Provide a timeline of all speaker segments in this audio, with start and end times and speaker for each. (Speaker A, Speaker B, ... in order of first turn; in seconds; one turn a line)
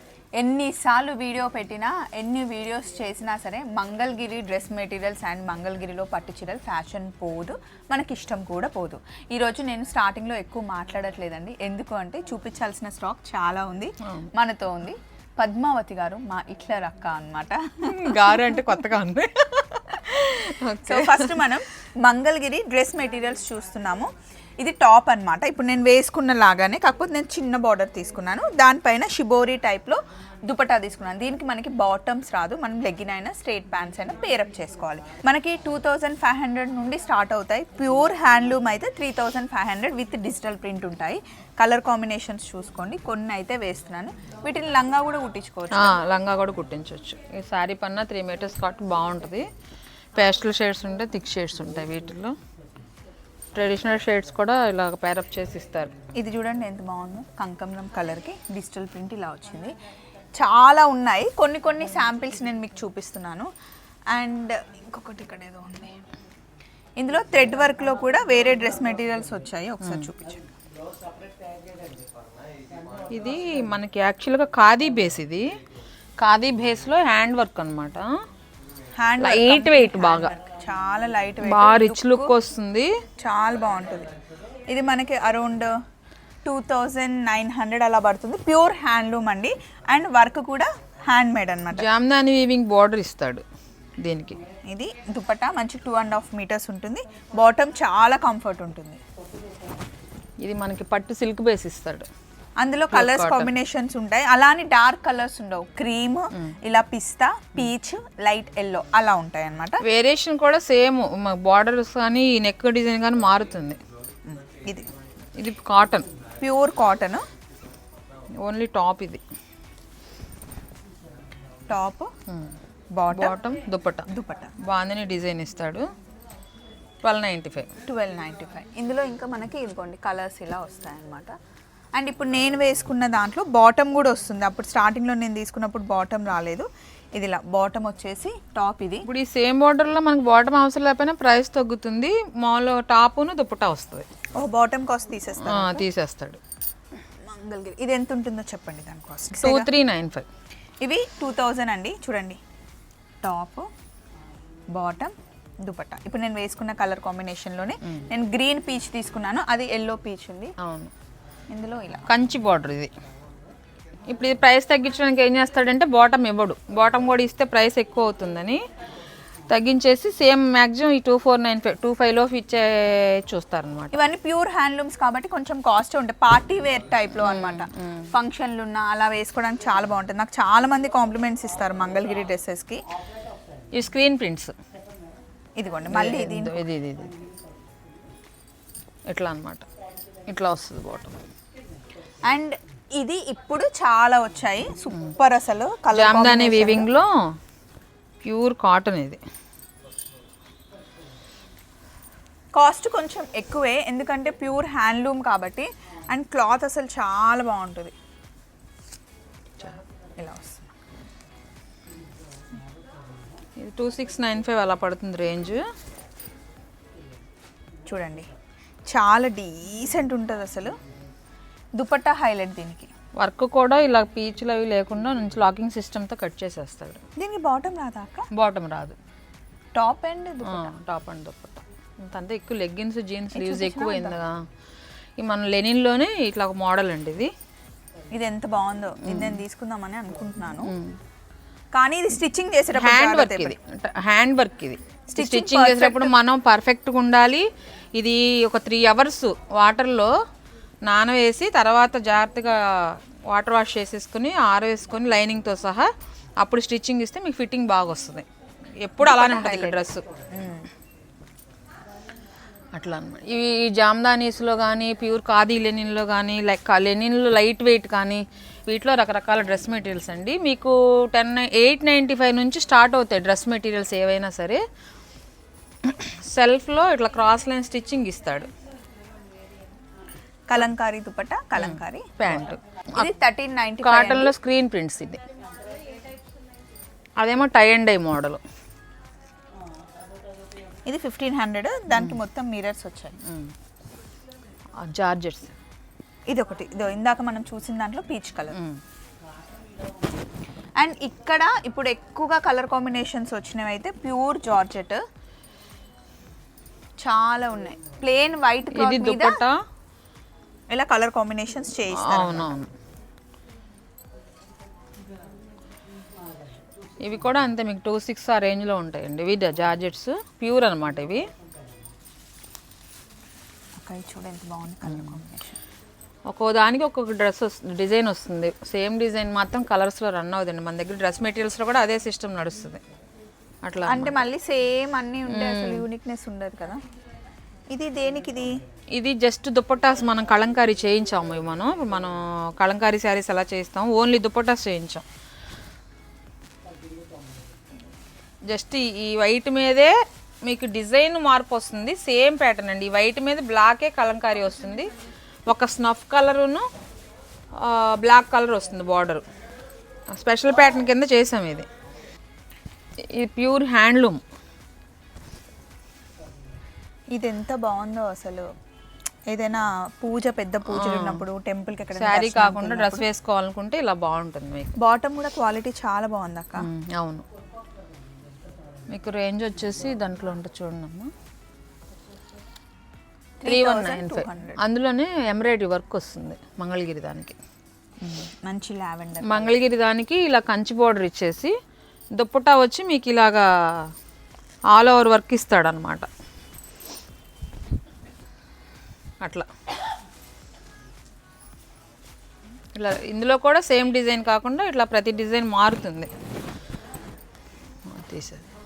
Speaker A: 0.3-18.8
Speaker B: 17.8-21.5
Speaker A: 20.8-46.0
Speaker B: 45.7-49.5
Speaker B: 50.2-52.4
Speaker B: 53.5-55.9
Speaker A: 56.2-59.7
Speaker A: 60.4-63.5
Speaker A: 64.1-66.0
Speaker A: 67.0-70.5
Speaker B: 69.8-70.1
Speaker B: 73.1-75.5
Speaker B: 76.2-78.2
Speaker A: 79.0-82.3
Speaker B: 79.2-80.3
Speaker B: 81.4-82.9
Speaker A: 83.2-84.1
Speaker A: 84.7-85.7
Speaker A: 86.4-91.9
Speaker B: 91.7-93.4
Speaker B: 94.0-94.4
Speaker A: 94.7-99.0
Speaker B: 100.4-102.1
Speaker A: 102.6-109.8
Speaker B: 102.9-103.5
Speaker B: 109.8-113.8
Speaker A: 114.3-114.9
Speaker B: 115.4-116.1
Speaker A: 116.4-117.3
Speaker B: 118.4-119.2
Speaker A: 121.7-122.1
Speaker B: 122.3-122.5
Speaker A: 123.0-123.4
Speaker B: 123.1-124.1
Speaker A: 124.1-124.5
Speaker B: 124.6-125.9
Speaker B: 127.0-127.7
Speaker A: 127.9-131.3
Speaker A: 131.9-139.1
Speaker B: 139.0-144.1
Speaker A: 144.3-145.8
Speaker B: 145.4-146.4
Speaker A: 147.2-149.7
Speaker B: 149.3-150.3
Speaker A: 150.8-152.4
Speaker A: 153.2-153.7
Speaker A: 154.7-160.6
Speaker B: 160.6-160.9
Speaker A: 161.5-162.1
Speaker B: 162.1-162.9
Speaker B: 164.1-168.6
Speaker B: 169.5-174.0
Speaker A: 173.9-182.8
Speaker B: 177.2-178.1
Speaker B: 183.7-184.5
Speaker A: 185.6-186.7
Speaker B: 185.9-187.2
Speaker B: 189.1-189.7
Speaker B: 190.3-191.2
Speaker A: 192.2-196.9
Speaker B: 195.9-197.3
Speaker B: 198.3-199.2
Speaker A: 202.5-207.9
Speaker A: 210.2-210.7
Speaker B: 213.6-215.6
Speaker A: 217.9-218.3
Speaker A: 218.9-220.8
Speaker A: 221.8-222.9
Speaker B: 223.2-227.0
Speaker A: 227.2-228.3
Speaker B: 228.3-229.0
Speaker A: 229.8-230.7
Speaker B: 230.4-234.5
Speaker A: 233.3-234.2
Speaker B: 235.2-237.3
Speaker A: 238.1-240.7
Speaker B: 239.0-239.4
Speaker B: 240.7-241.0
Speaker A: 241.7-243.6
Speaker B: 242.7-250.2
Speaker A: 245.1-246.1
Speaker B: 250.9-258.3
Speaker B: 258.8-260.0
Speaker A: 259.0-260.7
Speaker B: 262.8-274.6
Speaker B: 275.8-278.5
Speaker A: 280.5-282.1
Speaker B: 281.6-283.1
Speaker A: 283.0-284.3
Speaker B: 283.8-285.2
Speaker B: 287.2-288.4
Speaker A: 290.9-293.2
Speaker B: 293.2-293.5
Speaker B: 294.8-295.6
Speaker A: 296.3-298.6
Speaker B: 298.5-298.8
Speaker A: 300.8-305.0
Speaker A: 307.0-309.4
Speaker B: 308.7-309.6
Speaker A: 310.7-312.6
Speaker B: 311.9-312.7
Speaker B: 317.0-321.3
Speaker A: 323.8-325.6
Speaker B: 326.3-332.8
Speaker B: 333.6-334.2
Speaker A: 333.9-336.8
Speaker B: 335.3-335.8
Speaker A: 337.7-338.6
Speaker B: 338.9-345.0
Speaker B: 348.5-354.9
Speaker B: 355.5-356.7
Speaker B: 357.6-359.2
Speaker B: 360.1-361.7
Speaker B: 363.1-364.2
Speaker A: 367.1-368.5
Speaker A: 369.3-373.0
Speaker B: 370.7-371.2
Speaker B: 372.0-374.8
Speaker A: 374.8-376.7
Speaker B: 376.6-377.2
Speaker B: 378.9-381.1
Speaker A: 383.4-384.6
Speaker B: 383.5-387.4
Speaker A: 388.0-389.4
Speaker B: 389.2-391.5
Speaker B: 392.1-393.9
Speaker B: 394.7-396.1
Speaker B: 399.2-399.5
Speaker B: 402.8-406.1
Speaker B: 407.9-408.5